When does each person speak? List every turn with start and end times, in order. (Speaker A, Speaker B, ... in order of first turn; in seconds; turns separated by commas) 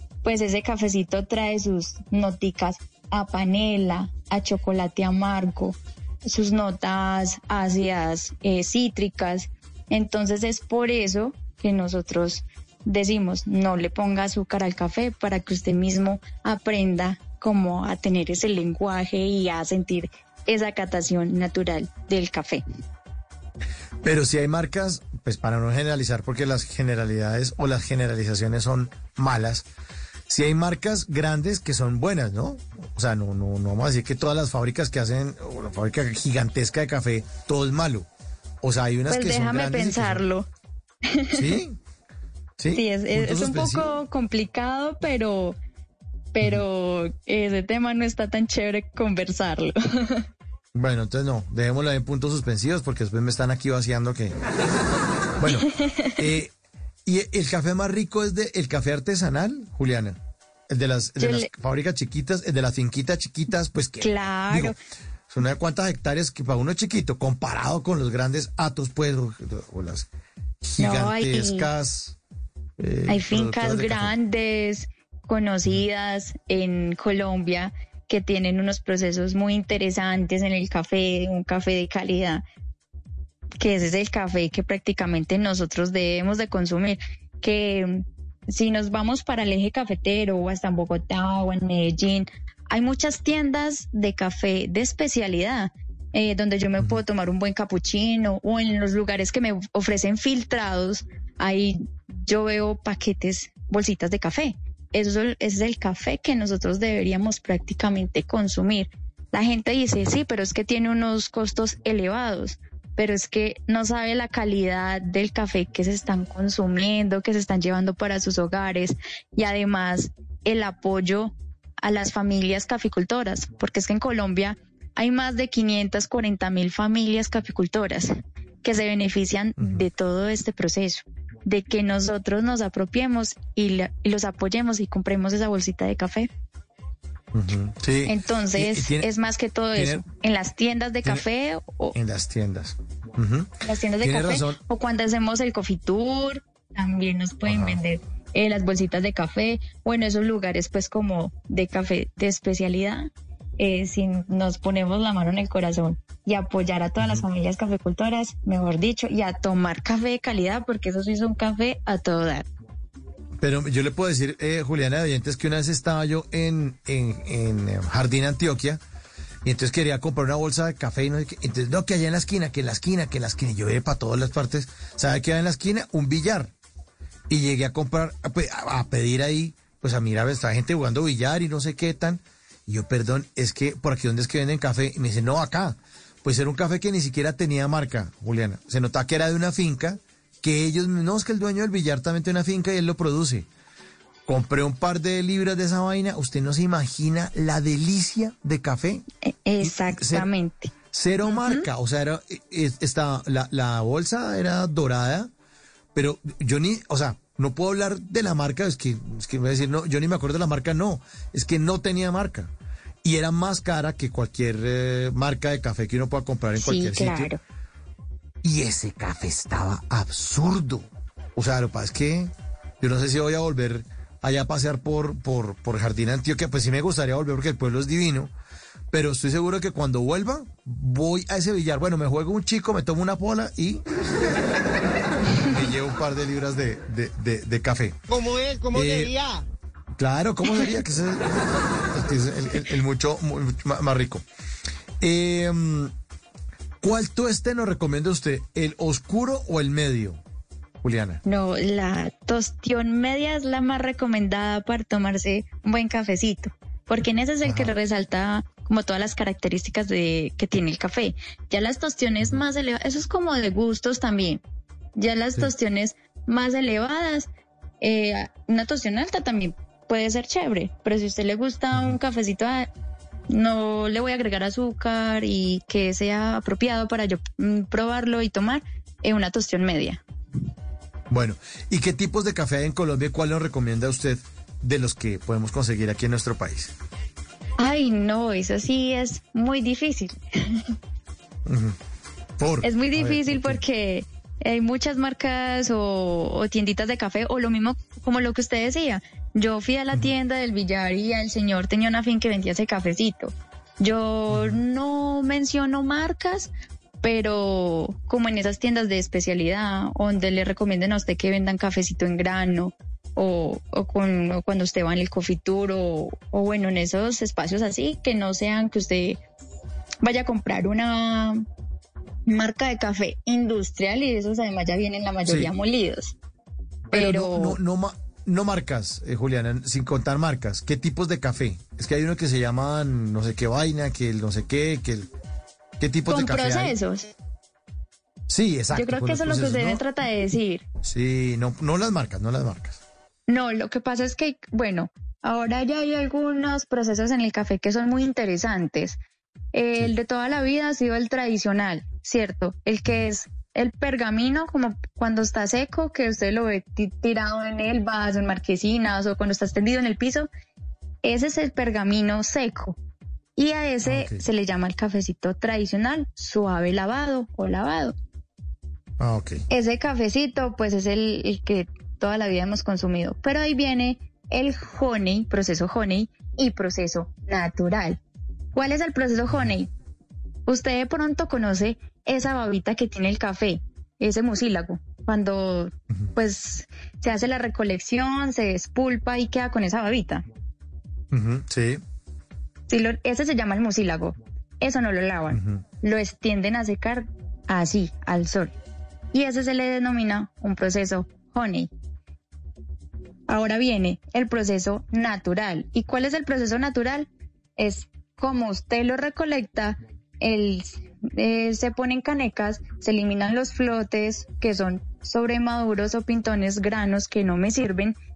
Speaker A: 0.2-22.6, Speaker B: 24.0-29.6, Speaker B: 30.3-38.1, Speaker B: 38.6-40.2, Speaker A: 39.1-40.5, Speaker A: 41.1-41.5, Speaker B: 41.3-41.8, Speaker B: 42.6-43.9, Speaker A: 42.7-45.6, Speaker A: 46.3-50.2, Speaker B: 50.7-54.4, Speaker B: 55.4-55.7, Speaker A: 55.5-56.2, Speaker B: 56.2-56.5, Speaker B: 57.0-60.2, Speaker B: 60.7-64.7, Speaker A: 61.2-61.5, Speaker A: 64.0-64.8, Speaker B: 65.3-70.1, Speaker B: 70.6-72.2, Speaker A: 70.8-71.7, Speaker B: 72.8-74.1, Speaker A: 73.1-82.4, Speaker A: 83.6-136.3, Speaker B: 129.6-129.8, Speaker B: 137.3-139.1, Speaker A: 138.1-141.9, Speaker B: 139.7-140.0, Speaker B: 141.9-144.6, Speaker A: 143.6-162.4, Speaker B: 147.5-147.8, Speaker B: 163.4-168.8, Speaker B: 169.4-176.5, Speaker B: 177.3-193.5, Speaker B: 194.2-199.0, Speaker A: 199.2-200.7, Speaker B: 199.6-200.3, Speaker B: 200.9-205.3, Speaker A: 201.2-201.6, Speaker B: 205.9-212.5, Speaker B: 213.0-217.3, Speaker A: 216.5-217.4, Speaker B: 218.4-220.8, Speaker B: 221.3-228.3, Speaker B: 228.9-233.8, Speaker B: 235.4-238.0, Speaker B: 238.7-239.2, Speaker B: 240.0-241.3, Speaker B: 241.9-244.2, Speaker B: 245.0-245.9, Speaker B: 246.8-250.2, Speaker B: 250.8-251.2, Speaker A: 251.2-264.4, Speaker B: 257.4-257.7, Speaker A: 264.9-267.3, Speaker A: 267.8-272.7, Speaker A: 273.3-280.0, Speaker B: 281.1-286.7, Speaker A: 287.6-290.6, Speaker B: 291.4-291.8, Speaker B: 292.4-293.6, Speaker A: 292.6-306.5, Speaker A: 307.0-319.2, Speaker A: 320.0-321.4, Speaker A: 322.3-326.1, Speaker B: 325.2-325.5, Speaker B: 326.9-335.1, Speaker A: 326.9-327.6, Speaker B: 335.8-336.7, Speaker A: 336.1-337.1, Speaker B: 338.3-339.8, Speaker A: 338.7-340.6, Speaker B: 340.8-342.8, Speaker A: 343.3-349.0, Speaker A: 349.5-360.3, Speaker A: 361.0-362.8, Speaker A: 363.4-367.9, Speaker B: 363.9-364.2, Speaker B: 369.0-369.4, Speaker A: 369.5-378.0, Speaker A: 378.5-379.7, Speaker A: 380.5-390.2, Speaker B: 391.1-391.8, Speaker A: 392.7-398.5, Speaker B: 395.3-395.6, Speaker A: 399.1-401.7, Speaker A: 403.3-407.1, Speaker A: 407.6-417.9